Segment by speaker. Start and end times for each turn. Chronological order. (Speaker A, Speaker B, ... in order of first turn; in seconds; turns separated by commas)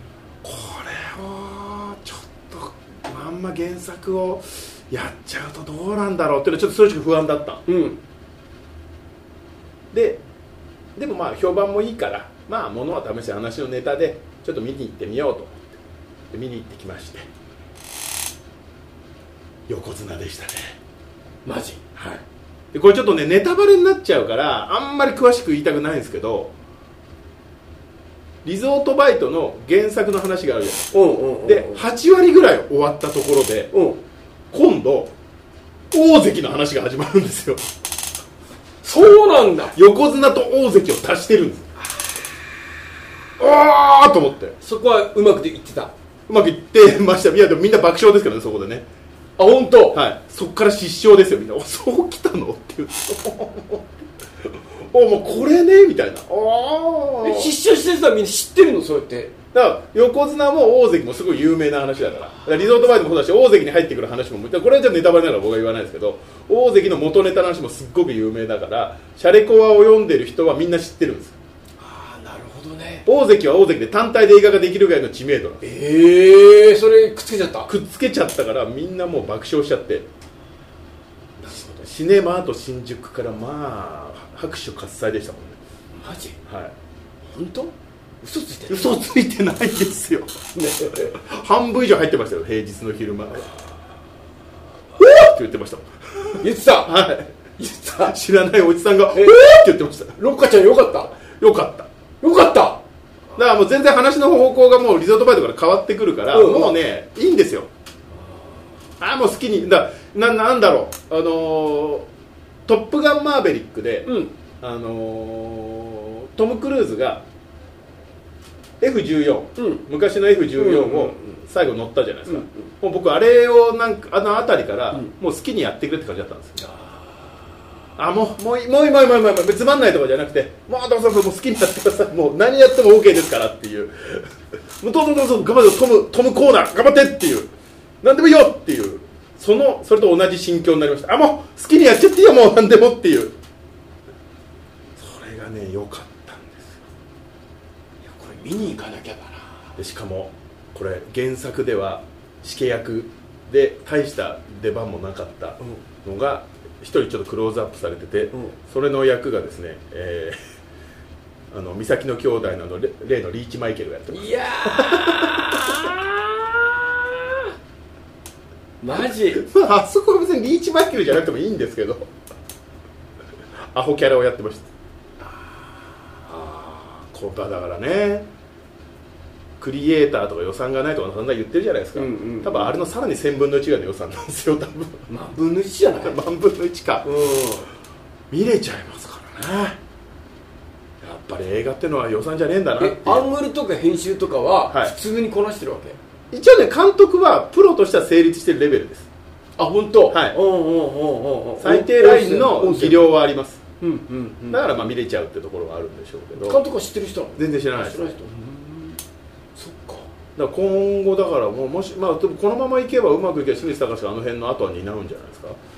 Speaker A: 0.4-7.6, Speaker B: 7.7-8.0, Speaker A: 9.9-10.2, Speaker A: 10.9-15.7, Speaker A: 16.3-17.2, Speaker A: 19.7-20.7, Speaker B: 21.4-21.8, Speaker A: 21.9-22.2, Speaker A: 22.7-26.5, Speaker A: 28.4-33.7, Speaker B: 30.9-31.8, Speaker B: 33.7-34.0, Speaker A: 34.5-35.1, Speaker A: 35.9-37.6, Speaker B: 38.8-39.7, Speaker A: 39.7-41.7, Speaker A: 43.4-44.5, Speaker B: 44.6-45.9, Speaker A: 46.3-48.8, Speaker B: 49.4-50.0, Speaker A: 49.9-53.9, Speaker A: 54.9-57.5, Speaker B: 57.2-59.3, Speaker A: 59.5-71.4, Speaker B: 62.4-62.8, Speaker B: 71.8-73.0, Speaker A: 73.0-75.6, Speaker B: 75.6-77.7, Speaker A: 77.7-80.0, Speaker B: 81.4-81.9, Speaker A: 81.4-85.6, Speaker B: 86.0-86.3, Speaker A: 86.5-86.7, Speaker B: 87.3-89.0, Speaker A: 88.7-90.3, Speaker B: 90.5-91.1, Speaker A: 90.9-93.5, Speaker A: 95.0-97.3, Speaker B: 96.4-96.9, Speaker B: 97.6-98.1, Speaker A: 97.9-100.2, Speaker B: 99.1-101.2, Speaker A: 101.3-101.9, Speaker B: 102.2-102.8, Speaker A: 103.3-107.7, Speaker B: 106.3-106.8, Speaker A: 109.0-112.1, Speaker A: 112.7-114.1, Speaker B: 114.0-114.3, Speaker A: 114.6-117.2, Speaker A: 118.8-126.6, Speaker B: 119.6-119.8, Speaker B: 120.5-121.3, Speaker B: 122.3-122.7, Speaker A: 128.0-137.5, Speaker A: 138.0-143.3, Speaker A: 144.9-146.9, Speaker B: 148.0-149.6, Speaker A: 149.8-160.3, Speaker A: 161.5-165.7, Speaker B: 164.1-167.2, Speaker B: 168.8-169.4, Speaker A: 169.3-172.1, Speaker A: 173.7-174.7, Speaker A: 176.3-178.3, Speaker A: 179.6-185.1, Speaker B: 181.9-182.7, Speaker B: 185.1-186.2, Speaker A: 186.0-187.1, Speaker B: 187.0-187.7, Speaker A: 188.3-189.8, Speaker A: 191.0-193.3, Speaker B: 192.8-196.0, Speaker A: 194.7-194.9, Speaker A: 196.3-199.1, Speaker B: 199.6-203.1, Speaker A: 200.1-200.4, Speaker A: 201.6-203.6, Speaker B: 203.8-204.7, Speaker A: 204.5-206.6, Speaker B: 206.3-209.0, Speaker A: 207.3-208.1, Speaker B: 209.6-210.1, Speaker A: 210.3-215.6